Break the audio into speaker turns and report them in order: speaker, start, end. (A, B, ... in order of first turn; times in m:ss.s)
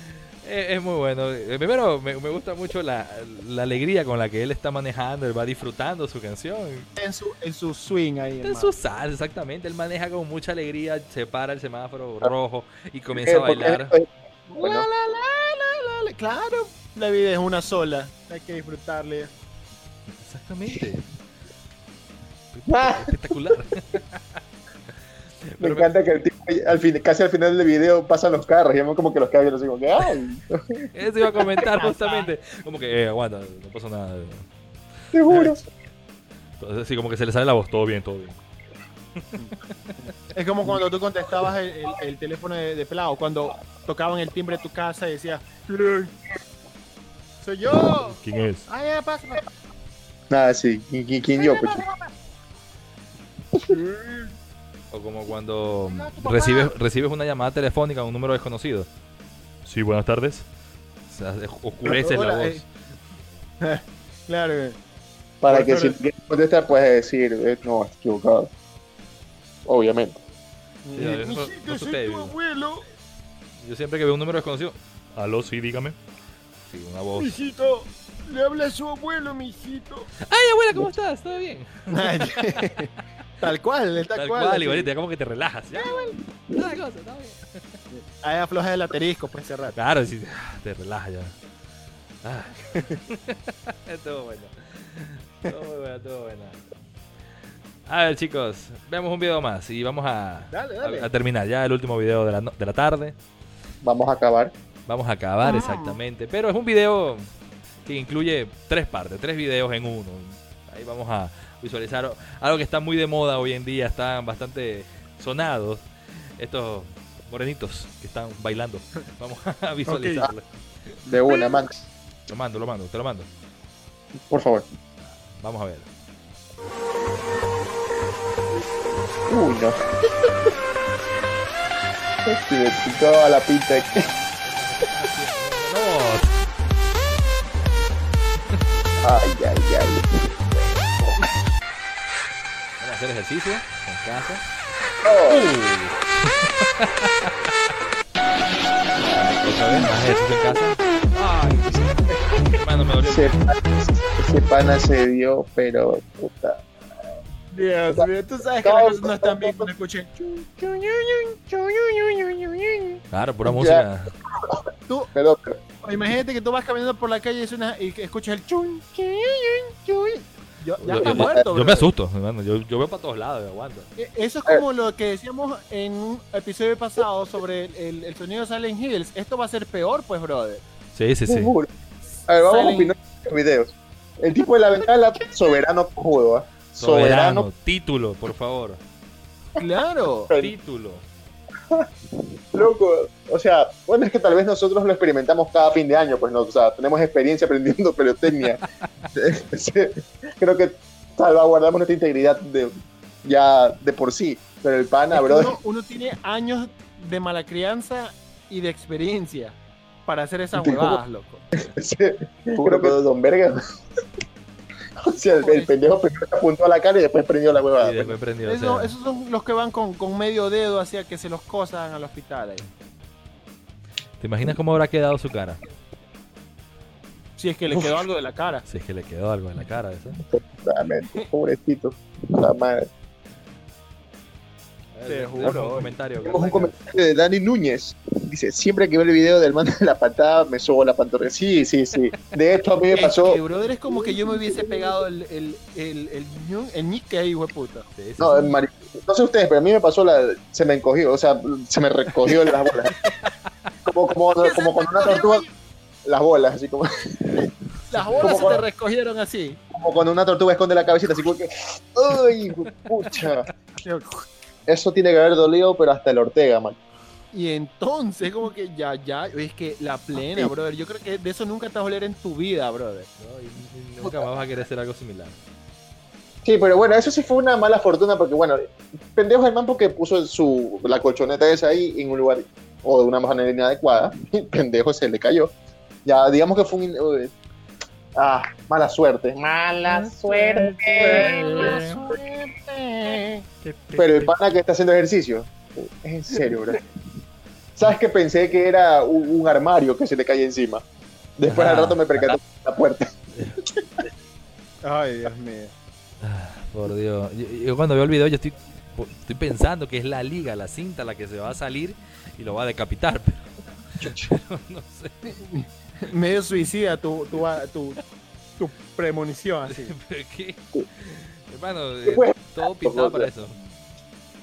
0:00.4-0:06.9 A
0:07.0-0:08.7 B
0:08.4-0:13.9 A
0:13.1-0:14.9 C
0:14.5-0:19.3 B
0:20.2-0:21.0 A
0:22.5-0:24.2 A
0:22.7-0:23.2 C
0:25.5-0:25.9 A
0:25.6-0:30.9 C
0:30.9-0:34.5 A
0:31.6-0:32.3 B
0:35.1-0:35.6 C
0:36.6-0:38.4 A
0:39.2-0:39.7 A
0:40.0-0:46.1 B
0:47.4-0:49.5 B
0:48.0-0:48.6 A
0:50.3-0:51.8 C
0:51.4-0:52.1 B
0:53.6-0:54.3 B
0:54.9-0:58.9 A
0:55.8-0:56.7 B
0:59.6-1:00.4 A
1:01.1-1:02.7 A
1:01.8-1:02.6 B
1:03.6-1:04.8 B
1:05.4-1:08.5 C
1:05.5-1:06.0 B
1:09.6-1:10.2 C
1:10.8-1:12.8 B
1:11.0-1:12.3 A
1:13.6-1:16.0 A
1:16.6-1:17.4 A
1:17.2-1:20.1 B
1:20.2-1:22.8 A
1:21.9-1:24.9 B
1:24.1-1:27.8 A
1:25.7-1:26.2 B
1:27.9-1:29.8 B
1:29.7-1:31.3 A
1:32.2-1:36.6 A
1:37.8-1:43.1 A
1:40.5-1:41.1 B
1:43.8-1:44.5 C
1:44.9-1:47.3 A
1:45.4-1:46.0 B
1:47.8-2:00.9 A
1:59.8-2:00.3 B
2:01.1-2:01.8 C
2:01.3-2:01.5 B
2:02.3-2:03.3 A
2:04.3-2:04.7 C
2:05.0-2:05.9 A
2:09.3-2:09.8 C
2:12.2-2:14.1 C
2:13.9-2:16.4 A
2:19.0-2:20.8 C
2:22.8-2:24.4 A
2:25.0-2:25.5 C
2:25.2-2:27.3 A
2:29.1-2:33.4 A
2:33.0-2:36.6 C
2:37.5-2:43.0 B
2:38.6-2:39.7 C
2:43.1-2:44.1 A
2:43.4-2:45.6 C
2:45.8-2:51.9 B
2:50.8-2:53.9 A
2:51.0-2:51.4 C
2:54.0-3:00.6 B
3:00.9-3:01.5 A
3:01.2-3:01.7 C
3:02.3-3:07.5 C
3:02.4-3:02.9 B
3:06.8-3:08.8 A
3:09.6-3:10.3 B
3:10.3-3:11.0 A
3:12.5-3:18.6 C
3:19.1-3:25.6 C
3:25.1-3:31.4 B
3:30.5-3:31.0 C
3:31.5-3:33.6 C
3:32.6-3:32.9 B
3:35.0-3:38.2 C
3:35.2-3:35.8 B
3:37.8-3:38.9 A
3:38.4-3:42.6 B
3:44.2-3:45.6 A
3:47.4-3:48.6 B
3:48.7-3:50.2 A
3:50.3-3:52.9 C
3:54.9-3:56.7 A
3:55.0-3:55.9 B
3:56.2-4:04.9 C
4:02.9-4:07.8 B
4:08.0-4:08.6 A
4:08.2-4:13.0 C
4:13.0-4:13.3 A
4:13.8-4:15.4 C
4:14.4-4:15.5 B
4:16.0-4:17.4 C
4:17.4-4:19.6 B
4:17.9-4:18.6 A
4:18.2-4:18.6 C
4:19.7-4:23.5 C
4:23.8-4:24.2 B
4:24.7-4:26.8 C
4:27.3-4:33.1 B
4:30.2-4:30.5 C
4:33.2-4:35.3 A
4:36.4-4:45.5 C
4:46.0-4:47.3 C
4:48.2-4:51.9 C
4:49.8-4:53.4 B
4:51.0-4:52.1 A
4:53.6-4:54.3 A
4:54.0-4:56.8 C
4:57.8-5:00.8 C
5:01.4-5:03.1 C
5:01.5-5:02.4 A
5:03.3-5:03.6 A
5:04.8-5:05.7 B
5:06.2-5:15.2 A
5:14.0-5:14.3 C
5:15.3-5:18.0 B
5:18.6-5:19.9 B
5:19.7-5:23.6 A
5:22.0-5:23.3 C